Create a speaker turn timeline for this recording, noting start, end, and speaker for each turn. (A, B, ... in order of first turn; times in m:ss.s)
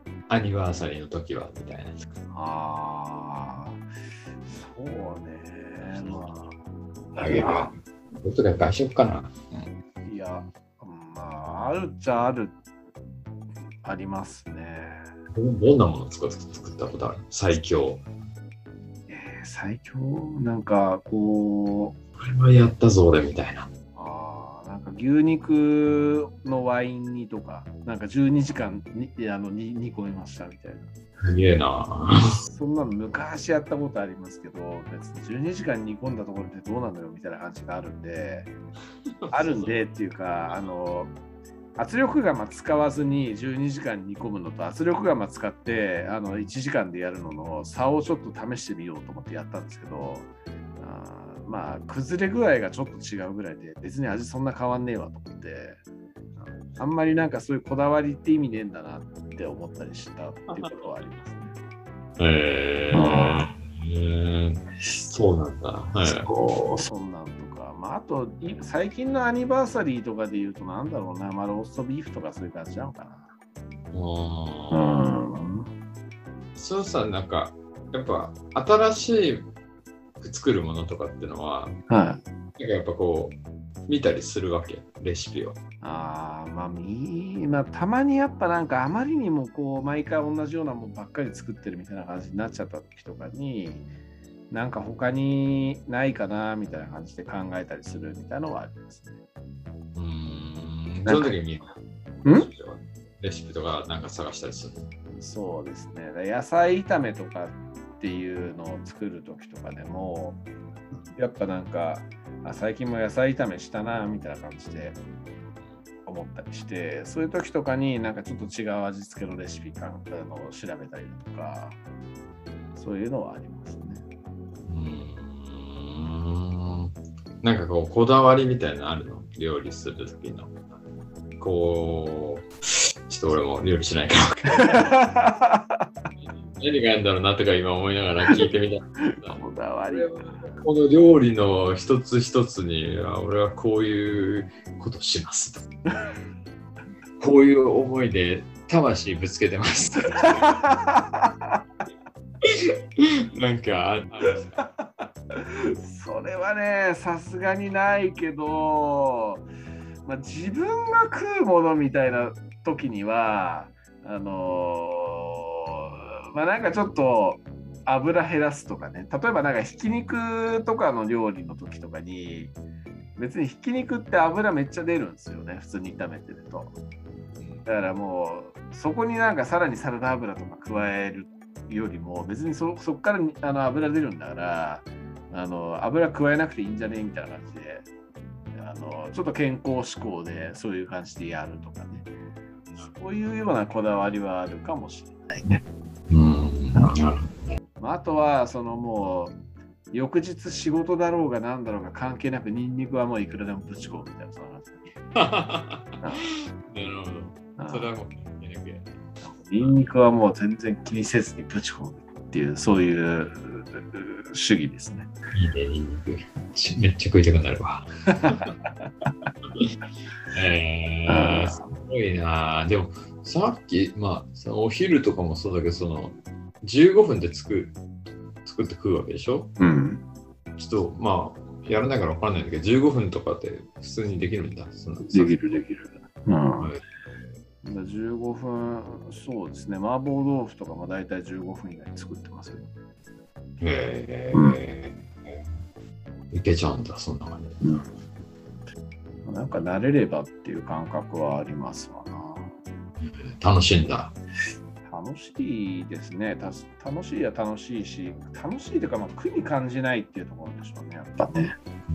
0:00.3-0:02.0 A
0:02.3-0:03.8 B
0:04.5-0:06.5 B
0:05.9-0:06.4 A
0:07.2-0:07.7 B
0:07.2-0:09.7 A
0:10.0-0:12.5 B
0:13.8-0:15.1 B
0:15.3-0:18.0 A
0:19.1-0:22.0 B
0:22.2-0:23.7 A
0:24.0-0:30.9 B
0:31.2-0:32.4 A
0:32.4-0:38.5 B
0:39.2-0:40.6 A
0:39.3-0:41.1 B
0:41.8-0:55.8 B
0:56.4-1:01.6 B
1:00.5-1:00.9 A
1:02.2-1:06.3 A
1:02.9-1:03.5 B
1:06.0-1:13.3 B
1:13.9-1:15.0 A
1:14.7-1:15.7 B
1:16.6-1:19.5 A
1:20.2-1:21.8 A
1:21.9-1:22.2 B
1:22.6-1:25.6 A
1:25.8-1:33.9 B
1:34.5-1:39.2 B
1:40.0-1:44.9 A
1:41.1-1:41.4 B
1:45.1-1:50.4 B
1:51.1-1:55.0 B
1:56.1-2:01.8 B
2:02.8-2:04.0 B
2:04.7-2:10.6 A
2:11.4-2:12.5 A
2:13.1-2:14.9 A
2:14.5-2:15.8 B
2:16.2-2:25.7 A
2:19.1-2:20.5 B
2:25.9-2:26.2 B
2:27.2-2:30.3 A
2:30.1-2:31.6 B
2:32.4-2:34.6 A
2:34.6-2:39.4 B
2:40.1-2:52.6 B
2:53.2-2:56.8 B
2:57.4-2:57.7 A
2:57.7-3:07.9 B
3:08.5-3:12.1 B
3:12.7-3:15.6 B
3:16.1-3:17.6 A
3:17.8-3:19.4 B
3:19.9-3:24.9 B
3:25.2-3:26.0 A
3:26.0-3:26.3 B
3:26.6-3:29.0 A
3:27.6-3:27.9 B
3:29.2-3:35.1 B
3:35.3-3:38.5 A
3:38.2-3:38.9 B
3:40.3-3:47.8 A
3:41.1-3:41.8 B
3:48.4-3:49.5 A
3:49.6-3:50.0 B
3:50.6-3:55.4 A
3:55.1-3:56.7 B
3:57.6-4:02.7 B
4:03.6-4:05.5 A
4:04.3-4:04.6 B
4:06.3-4:07.6 A
4:07.6-4:07.9 B
4:09.2-4:12.5 B
4:13.0-4:14.1 A
4:14.8-4:21.6 B